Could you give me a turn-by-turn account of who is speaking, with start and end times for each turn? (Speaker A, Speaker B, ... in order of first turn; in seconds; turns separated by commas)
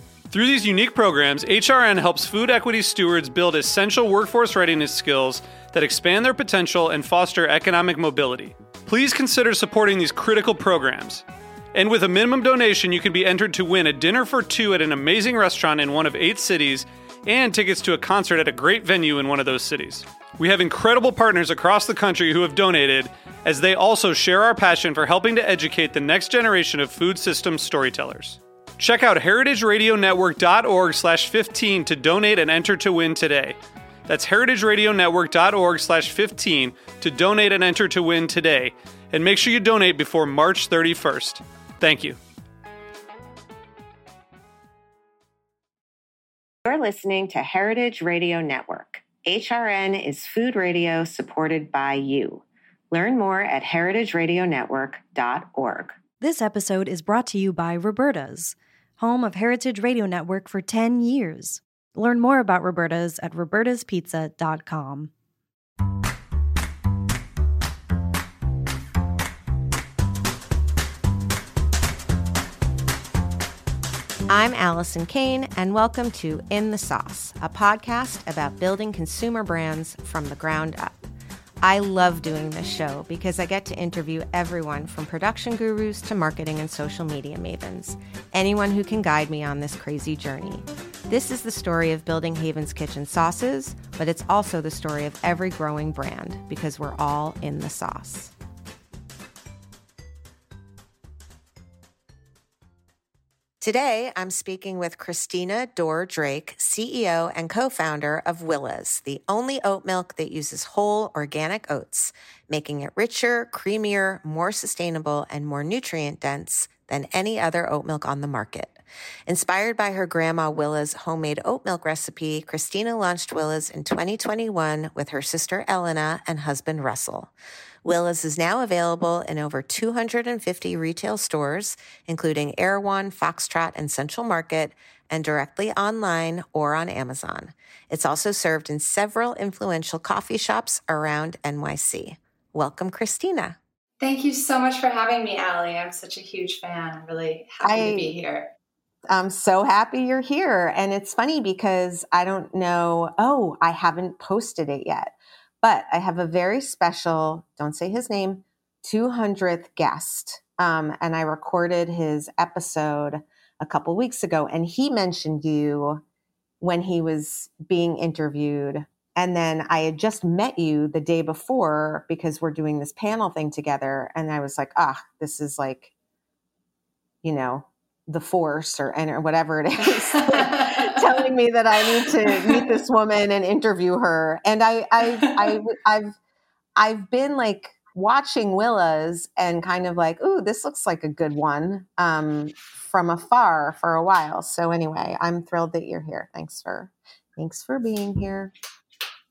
Speaker A: 0.3-33.6, Speaker A: 34.1-42.2, Speaker B: 46.7-56.0, Speaker C: 56.2-65.1, Speaker B: 74.3-81.0, Speaker B: 81.6-98.3, Speaker B: 103.6-127.3, Speaker B: 127.8-143.6, Speaker D: 144.0-148.5, Speaker B: 147.6-148.1, Speaker B: 149.1-166.0, Speaker B: 166.6-175.9, Speaker B: 177.2-186.2, Speaker D: 180.1-181.0, Speaker D: 182.0-182.6, Speaker D: 185.2-185.5, Speaker B: 186.8-198.5